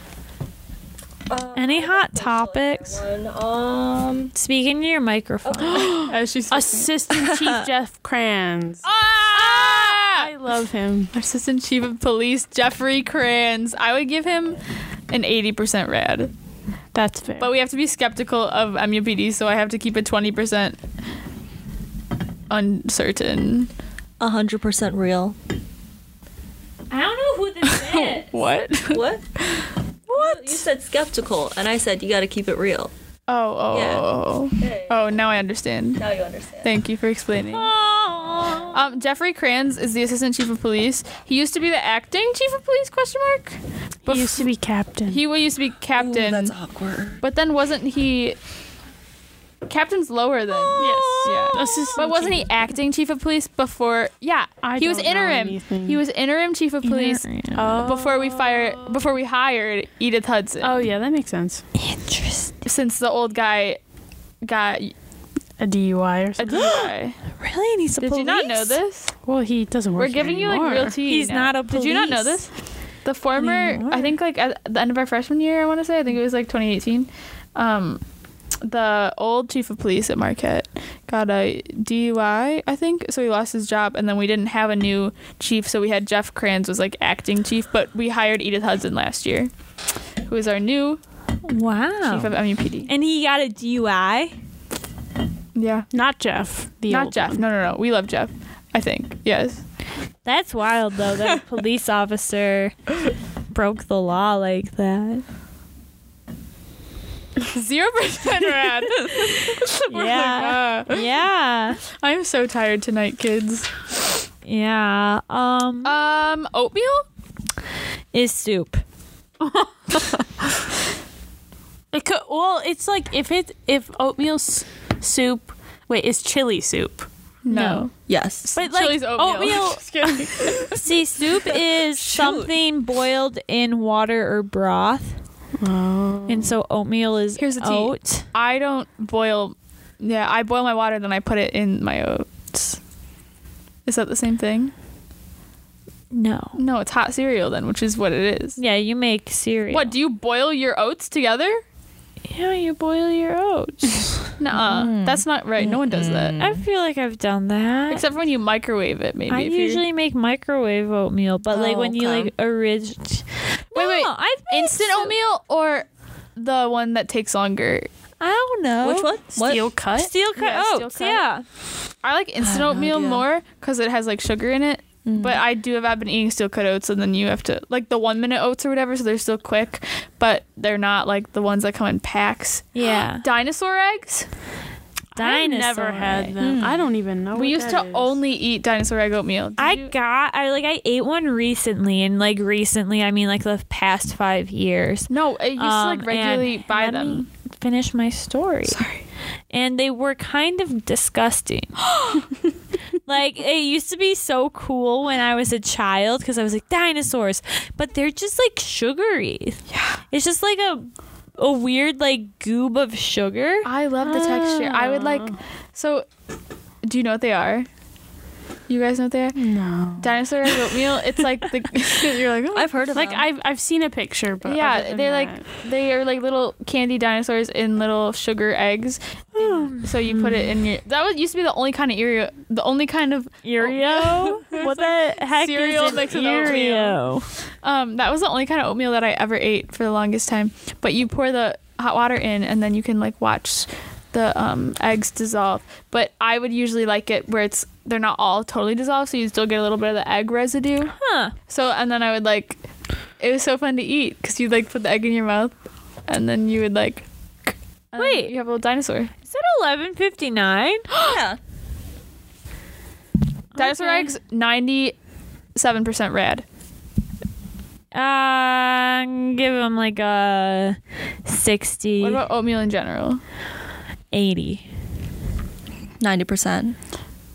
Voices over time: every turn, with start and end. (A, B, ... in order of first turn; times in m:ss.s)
0:01.3-0:04.3 A
0:01.5-0:03.0 B
0:04.3-0:06.0 B
0:05.4-0:06.1 A
0:05.6-0:11.1 C
0:06.0-0:06.9 D
0:07.1-0:07.6 A
0:08.8-0:10.3 D
0:11.1-0:14.6 D
0:15.1-0:16.3 D
0:16.9-0:17.5 C
0:17.4-0:20.8 D
0:22.5-0:23.7 D
0:24.2-0:25.4 A
0:26.9-0:28.3 B
0:27.8-0:29.7 D
0:28.9-0:29.2 A
0:30.1-0:32.9 A
0:33.3-0:36.0 D
0:33.7-0:35.1 A
0:36.0-0:36.7 A
0:36.6-0:37.7 D
0:37.6-0:38.8 B
0:38.7-0:44.5 D
0:44.0-0:45.2 C
0:45.1-0:46.5 D
0:46.0-0:47.2 A
0:47.2-0:48.4 D
0:49.6-1:00.8 D
0:50.6-0:51.9 A
0:50.8-0:52.6 C
0:54.6-0:56.0 C
0:56.8-0:57.8 B
0:57.5-0:59.0 C
1:00.6-1:01.6 C
1:01.8-1:02.5 B
1:02.6-1:03.8 D
1:04.4-1:04.9 D
1:05.6-1:06.9 C
1:06.4-1:07.2 D
1:07.4-1:08.8 B
1:08.0-1:09.2 D
1:09.2-1:11.0 C
1:10.0-1:12.5 D
1:11.0-1:12.4 B
1:13.0-1:18.0 D
1:13.4-1:14.1 B
1:18.6-1:29.5 D
1:30.3-1:31.0 D
1:31.4-1:32.3 B
1:32.0-1:32.9 D
1:32.8-1:34.3 B
1:35.6-1:35.9 D
1:35.9-1:37.4 C
1:36.9-1:39.6 D
1:40.2-1:42.7 B
1:43.5-1:45.2 B
1:47.5-1:51.1 D
1:49.1-1:51.8 B
1:51.9-1:53.8 D
1:54.4-1:56.0 B
1:55.8-1:57.0 D
1:58.1-1:58.8 B
2:01.9-2:07.1 C
2:07.4-2:07.9 D
2:07.5-2:07.8 B
2:08.1-2:08.5 A
2:08.4-2:10.8 D
2:08.5-2:10.7 C
2:10.7-2:15.1 B
2:11.9-2:12.5 A
2:15.6-2:16.5 C
2:16.3-2:18.2 B
2:17.4-2:22.8 D
2:23.8-2:24.7 D
2:26.1-2:26.6 B
2:26.6-2:28.6 D
2:28.6-2:29.9 B
2:29.7-2:31.6 D
2:32.3-2:34.1 B
2:34.4-2:36.4 D
2:34.5-2:36.6 A
2:36.4-2:38.0 B
2:37.9-2:39.8 D
2:39.3-2:45.2 B
2:41.5-2:42.3 A
2:43.7-2:47.9 D
2:48.2-2:49.1 B
2:48.8-2:49.7 A
2:49.4-2:51.2 C
2:49.9-2:51.4 B
2:50.8-2:51.1 D
2:52.0-3:04.2 D
2:52.4-2:53.2 A
2:55.0-2:55.4 A
3:02.7-3:03.2 B
3:05.1-3:08.2 C
3:05.2-3:06.3 B
3:06.0-3:06.3 D
3:06.4-3:06.9 A
3:07.3-3:09.9 D
3:09.6-3:18.8 B
3:15.1-3:17.2 D
3:18.7-3:19.0 D
3:19.5-3:21.8 B
3:21.9-3:22.3 D
3:23.0-3:29.6 B
3:29.7-3:30.0 D
3:30.1-3:33.7 B
3:33.6-3:36.0 D
3:34.0-3:35.4 C
3:36.8-3:37.7 D
3:38.7-3:39.4 D
3:39.3-3:40.1 C
3:40.0-3:42.7 D
3:42.5-3:43.3 A
3:42.9-3:45.4 C
3:44.4-3:57.0 D
3:49.3-3:50.5 B
3:53.4-3:57.3 B
3:57.6-4:10.9 D
4:11.0-4:11.3 B
4:11.5-4:12.6 D
4:13.2-4:15.5 D
4:16.1-4:19.1 D
4:18.0-4:18.3 B
4:19.2-4:20.8 B
4:21.0-4:21.4 A
4:23.5-4:24.1 B
4:23.6-4:24.9 D
4:25.6-4:26.4 D
4:27.9-4:32.2 B
4:32.0-4:33.2 D
4:34.1-4:34.6 B
4:36.0-4:36.8 A